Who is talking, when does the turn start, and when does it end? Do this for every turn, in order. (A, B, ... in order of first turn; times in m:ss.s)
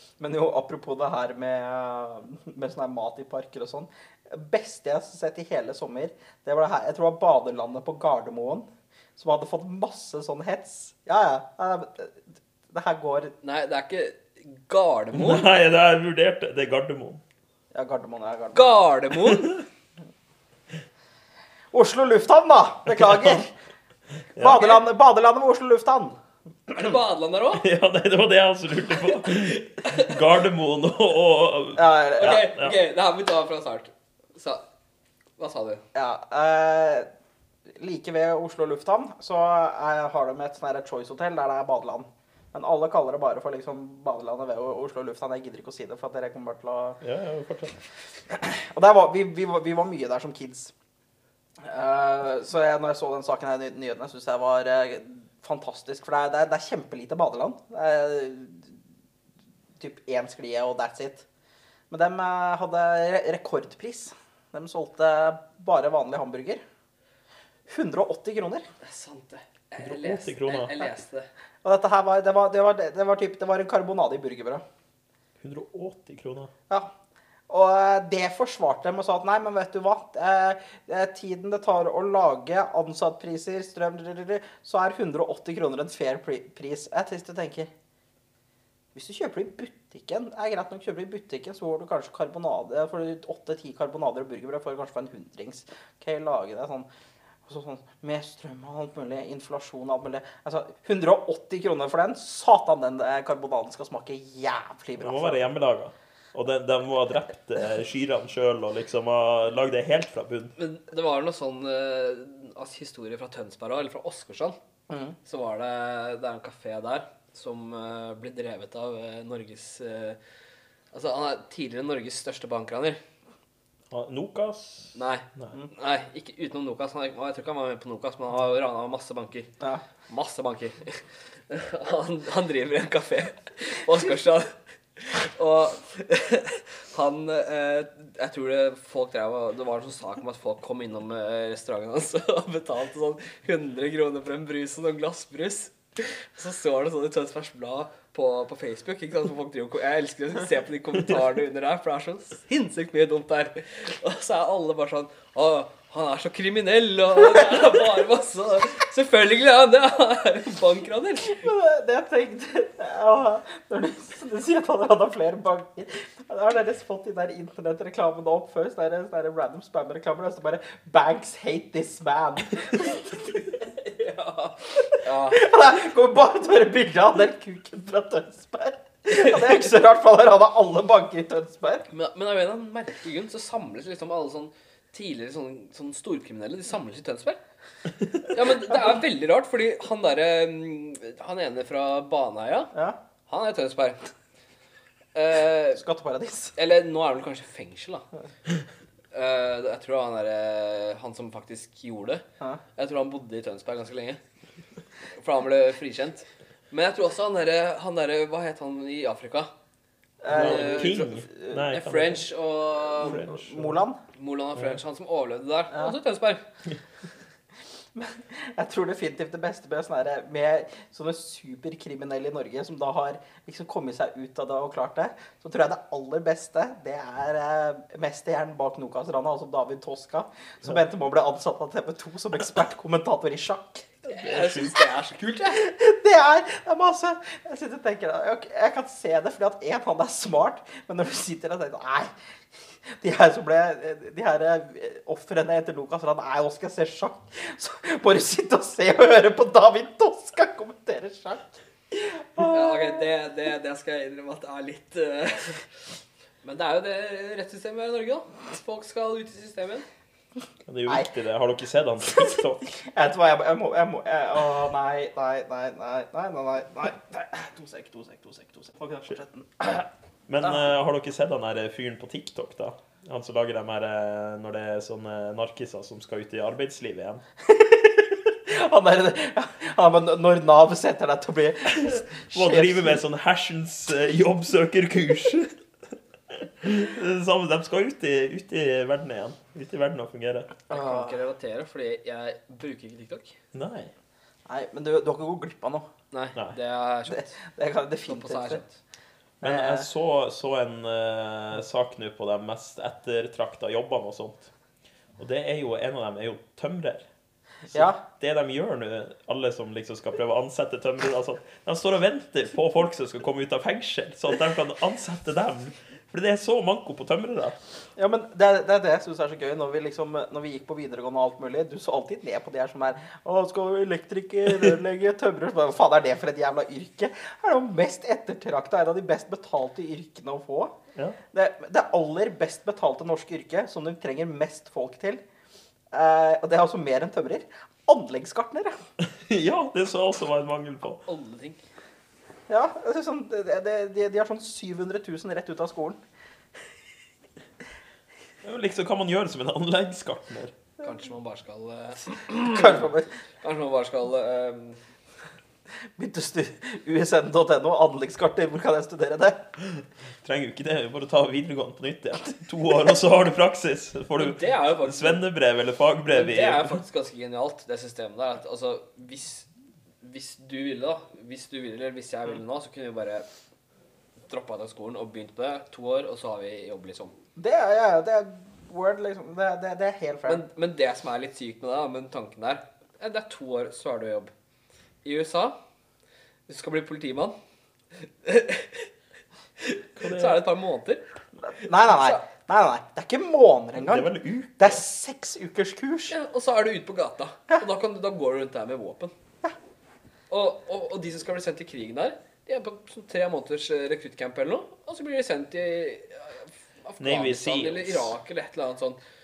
0:00.2-0:13.3 A
0:13.4-0:15.5 B
0:15.1-0:17.2 C
0:17.7-0:18.7 A
0:18.5-0:19.6 B
0:21.7-0:23.5 A
0:22.9-0:23.4 C
0:24.4-0:24.8 C
0:24.4-0:26.2 A
0:26.7-0:27.6 B
0:27.6-0:32.7 C
0:29.1-0:30.2 B
0:31.7-0:32.5 A
0:32.2-0:34.6 B
0:35.4-0:35.8 B
0:35.9-0:37.1 A
0:37.7-0:47.0 A
0:47.0-0:47.8 C
0:48.3-0:50.7 A
0:51.6-0:58.8 A
0:59.8-1:01.2 A
1:01.9-1:06.6 A
1:07.7-1:08.6 A
1:08.8-1:11.3 B
1:09.8-1:10.8 C
1:11.6-1:14.6 A
1:15.4-1:16.5 C
1:17.5-1:27.7 A
1:28.9-1:36.9 A
1:37.4-1:45.4 A
1:45.0-1:50.5 C
1:50.6-1:54.6 B
1:54.9-1:55.1 A
1:55.2-2:00.2 B
2:00.9-2:03.0 B
2:03.9-2:05.6 C
2:04.9-2:09.5 B
2:10.1-2:41.5 B
2:37.3-2:37.7 A
2:41.2-2:53.4 A
2:53.5-2:55.5 B
2:54.7-3:01.8 A
2:59.1-2:59.5 B
3:01.9-3:07.4 B
3:08.2-3:12.7 B
3:13.3-3:14.1 B
3:15.1-3:15.8 B
3:15.8-3:16.5 A
3:16.6-3:18.0 B
3:19.1-3:22.2 B
3:22.8-3:24.2 B
3:25.1-3:29.5 B
3:30.2-3:31.6 A
3:30.3-3:32.3 C
3:30.3-3:33.2 B
3:33.0-3:33.8 C
3:33.0-3:34.0 A
3:34.1-3:36.4 B
3:37.9-3:54.0 A
3:54.0-3:55.6 B
3:54.2-3:54.7 C
3:55.5-4:02.1 A
4:02.8-4:13.0 A
4:12.4-4:15.7 B
4:16.4-4:19.8 B
4:20.6-4:22.8 C
4:22.1-4:29.9 A
4:30.3-4:37.2 C
4:37.4-4:43.0 A
4:41.8-4:45.5 C
4:46.3-4:50.5 C
4:50.7-4:53.4 B
4:50.7-4:51.2 A
4:53.5-4:53.9 C
4:54.5-4:55.9 A
4:56.1-4:57.2 B
4:57.1-4:58.6 A
4:58.1-4:58.8 B
4:59.4-5:04.5 C
4:59.4-4:59.9 A
5:05.2-5:07.0 C
5:07.7-5:17.6 C
5:07.7-5:08.0 A
5:18.0-5:30.7 A
5:31.3-5:35.2 A
5:35.9-5:38.8 A
5:39.1-5:41.0 C
5:41.0-5:41.6 B
5:42.5-5:46.0 A
5:48.4-5:50.5 C
5:50.8-5:54.8 B
5:52.5-5:53.1 A
5:56.0-5:59.5 A
5:59.6-6:06.8 C
6:04.2-6:05.2 B
6:06.1-6:09.5 B
6:10.0-6:13.2 B
6:14.3-6:17.1 B
6:17.4-6:20.4 A
6:20.2-6:24.3 B
6:25.0-6:25.6 B
6:26.5-6:27.3 B
6:28.0-6:28.9 B
6:29.6-6:31.0 B
6:30.0-6:30.4 C
6:31.4-6:36.1 A
6:31.6-6:32.2 B
6:33.8-6:34.8 C
6:36.1-6:39.1 B
6:40.3-6:49.0 B
6:47.0-6:48.1 C